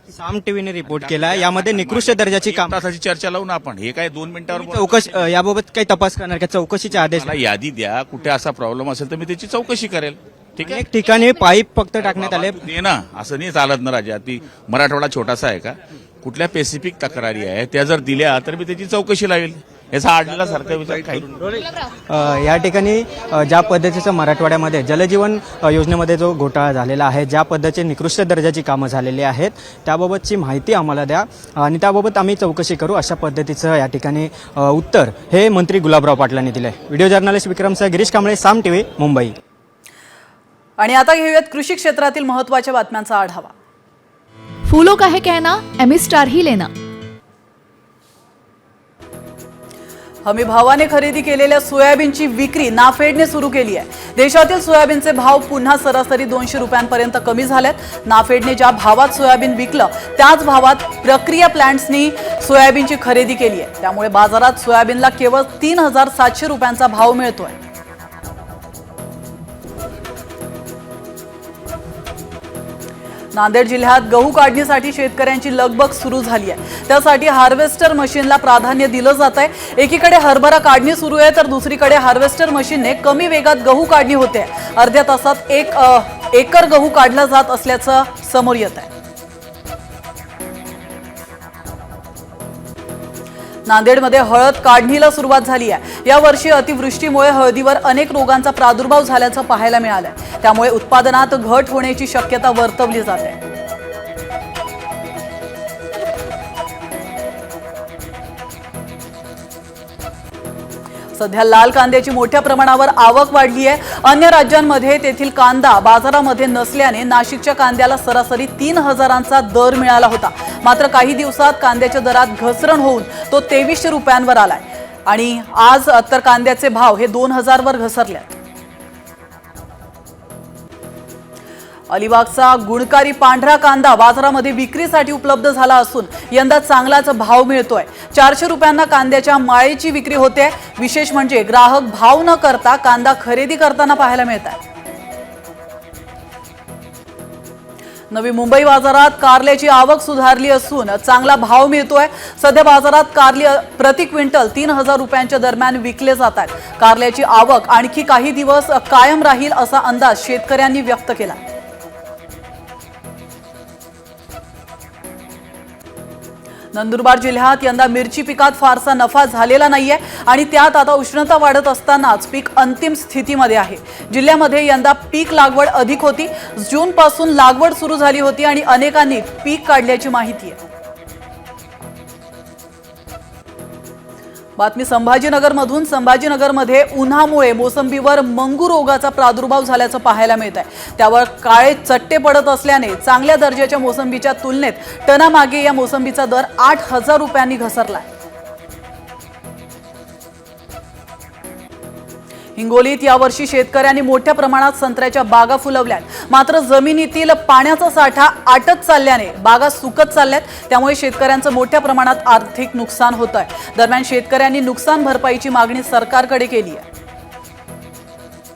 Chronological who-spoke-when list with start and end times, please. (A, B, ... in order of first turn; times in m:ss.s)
0:00.2-0:02.8 A
0:00.8-0:05.2 B
0:04.5-0:07.4 A
0:07.0-0:10.8 B
0:10.6-0:12.6 A
0:12.0-0:21.3 B
0:22.1-0:39.3 A
0:40.8-0:43.5 C
0:44.7-0:46.7 D
0:50.2-1:07.6 C
1:13.3-1:28.9 C
1:33.7-1:43.4 C
1:51.2-2:08.4 C
2:11.9-2:24.6 C
2:28.1-2:41.4 C
2:46.7-3:00.6 C
3:04.6-3:18.0 C
3:22.6-3:36.8 C